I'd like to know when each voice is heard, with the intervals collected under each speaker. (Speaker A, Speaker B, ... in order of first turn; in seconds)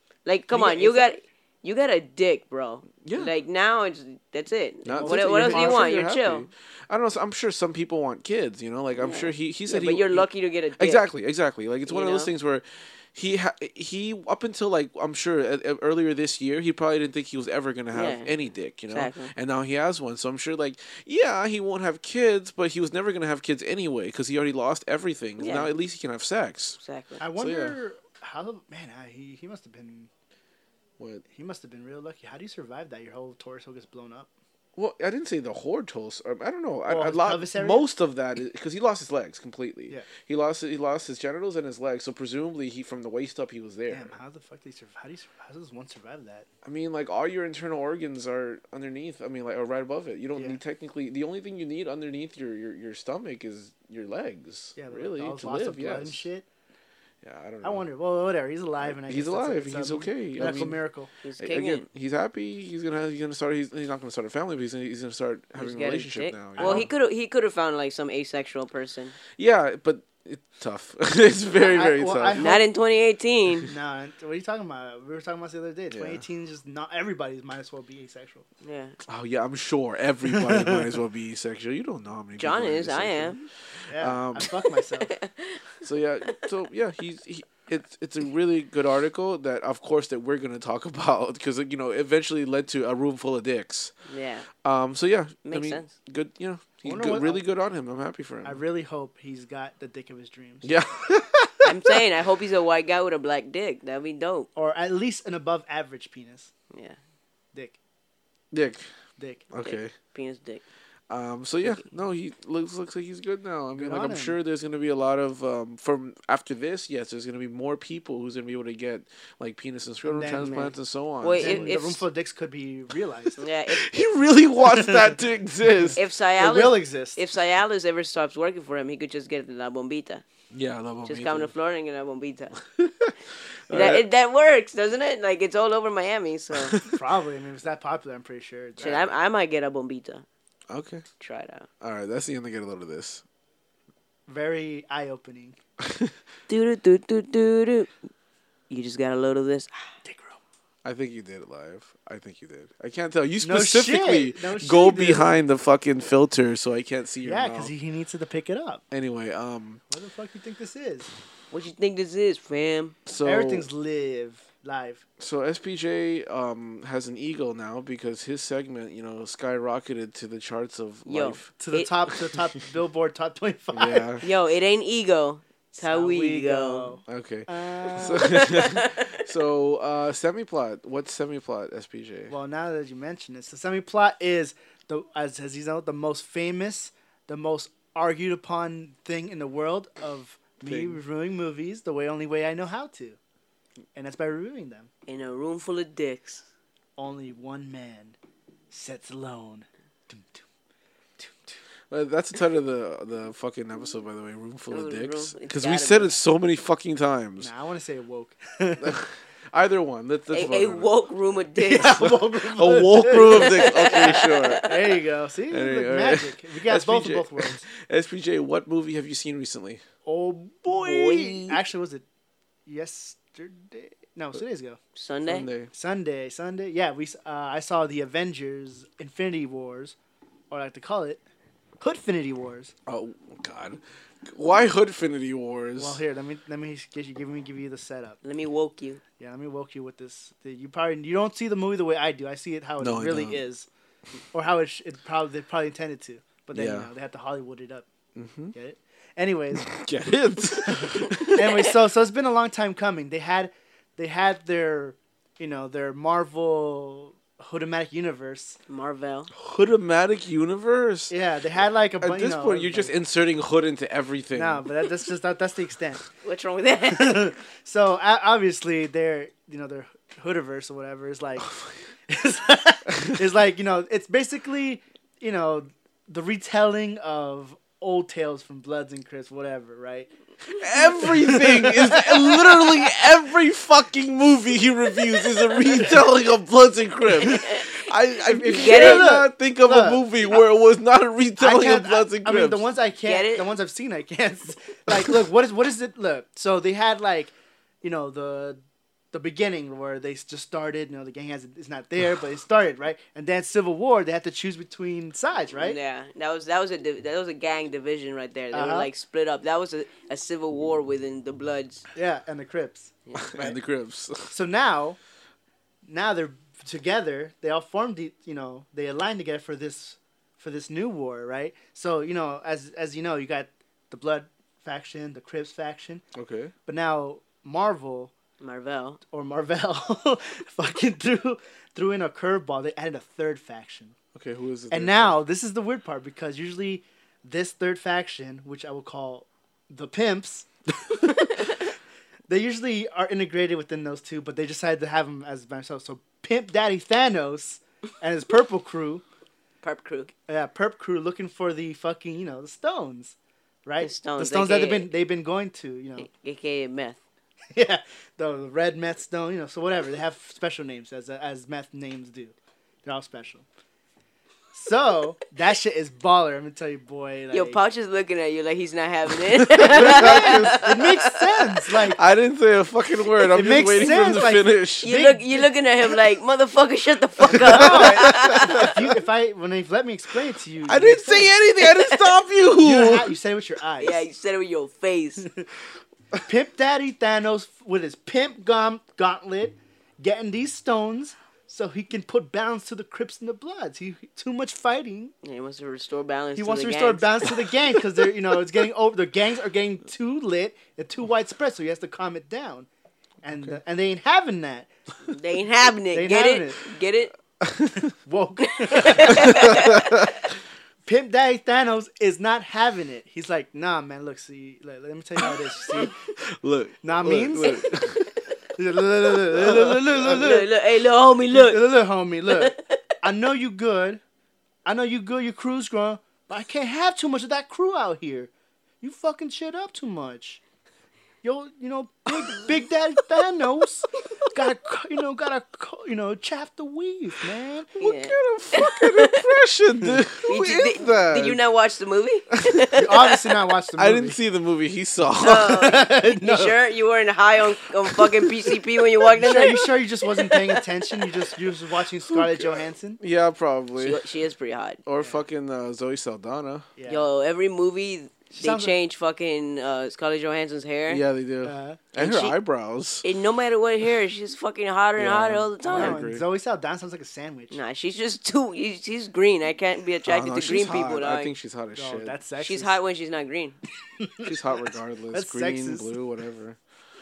Speaker A: 0.3-6.5, 8.9-11.1, 11.9-12.3, 17.9-18.3, 18.9-19.3, 25.4-25.7, 26.8-27.2, 60.4-60.7, 61.2-61.9, 65.6-69.2, 72.4-73.7, 78.6-79.0, 82.4-83.5, 85.0-85.8, 94.1-94.5, 95.5-95.9, 101.6-104.5, 106.7-107.0, 109.6-110.6, 121.2-122.0, 123.4-123.8, 126.0-130.2, 131.0-132.6, 133.7-136.8, 138.8-140.2, 141.2-141.7, 146.5-147.9, 148.7-149.8, 161.5-163.0, 171.1-171.9, 174.2-177.0, 178.2-179.2, 195.1-196.4, 204.7-206.1, 210.3-212.0, 213.3-214.8, 220.7-221.6, 224.9-225.5, 238.2-239.0, 258.7-259.3, 266.2-267.3, 287.3-287.7, 288.5-289.1, 293.1-293.4, 305.6-311.9, 328.4-329.0, 349.6-350.1, 353.8-354.9, 356.0-357.0, 367.3-371.2, 374.8-378.7, 383.8-385.3, 395.2-397.3, 405.1-407.1, 408.6-410.0, 417.7-418.0, 419.4-421.6, 422.3-422.8, 437.8-439.2, 440.2-443.1, 445.2-451.1, 453.8-454.8, 456.9-461.0, 462.0-462.4, 463.0-466.0, 467.5-471.3, 472.4-473.6
Speaker B: 0.5-1.1, 5.0-5.9, 27.2-30.1, 31.3-34.3, 36.9-37.9, 43.9-46.5, 50.4-50.6, 54.8-56.5, 57.6-61.1, 66.6-66.9, 71.6-72.6, 73.7-78.5, 80.4-80.8, 83.9-85.2, 96.8-97.4, 98.4-100.7, 104.6-106.5, 109.2-109.5, 113.8-114.4, 120.0-120.7, 121.4-123.4, 124.7-125.2, 126.4-127.2, 136.9-139.0, 144.3-145.6, 150.0-150.4, 153.4-155.3, 157.2-158.8, 159.9-161.1, 163.2-165.0, 171.6-174.1, 175.8-178.4, 182.3-193.2, 193.9-194.9, 197.0-198.2, 198.7-200.4, 201.2-201.6, 207.4-209.0, 211.6-217.7, 220.1-222.0, 222.7-224.8, 225.7-229.9, 230.5-231.2, 231.8-232.7, 235.8-238.2, 239.2-243.7, 244.3-247.9, 248.5-249.8, 250.6-258.6, 261.1-262.9, 264.4-266.1, 266.9-271.5, 272.1-280.1, 280.9-282.9, 288.2-290.1, 291.4-298.6, 299.1-305.8, 308.5-308.9, 311.9-313.6, 314.3-315.0, 315.9-326.0, 326.7-328.1, 329.1-333.9, 334.7-341.7, 342.3-349.0, 350.3-356.1, 357.5-363.4, 364.5-367.6, 369.6-372.0, 373.3-375.4, 377.3-381.3, 382.6-384.0, 385.2-385.4, 386.2-395.1, 396.4-402.7, 403.2-404.7, 405.9-406.7, 407.8-410.0, 410.9-416.0, 416.8-417.8, 418.5-420.5, 421.3-424.0, 424.6-428.3, 428.8-430.4, 431.2-437.7, 442.8-444.2, 445.5-446.6, 449.1-453.0, 456.8-457.1, 458.3-458.8, 461.4-461.9, 465.7-467.6, 471.8-472.8, 474.0-474.4, 475.1-476.0
Speaker C: 3.0-3.3, 4.8-26.8, 27.4-27.8, 34.8-44.2, 46.6-56.2, 57.2-57.8, 58.8-60.8, 61.4-66.9, 69.4-72.5, 75.9-76.2, 79.1-84.5, 85.8-93.9, 94.6-98.6, 100.6-102.0, 108.5-108.9, 109.5-109.9, 111.1-121.8, 123.7-126.0, 130.5-131.5, 132.7-133.1, 133.7-134.0, 136.5-137.0, 138.8-139.1, 140.7-141.1, 141.8-143.2, 145.8-146.1, 150.8-157.7, 158.9-159.8, 163.1-163.7, 165.2-171.5, 173.7-174.2, 177.1-182.3, 190.6-191.0, 201.9-207.5, 208.8-210.9, 211.8-214.7, 215.5-219.8, 225.3-225.7, 232.9-236.0, 242.8-243.4, 246.5-246.9, 248.1-248.5, 249.6-251.6, 259.4-261.1, 262.0-264.6, 280.5-292.6, 313.2-314.3, 326.1-326.5, 334.1-335.2, 369.4-370.7, 371.9-374.9, 377.3-378.8, 380.6-383.1, 407.4-407.9, 409.2-410.1, 415.8-418.1, 419.3-420.2, 437.8-441.4, 443.8-445.6, 452.1-454.0, 454.9-456.7, 460.9-463.1, 465.0-466.2, 470.1-472.2, 474.2-476.6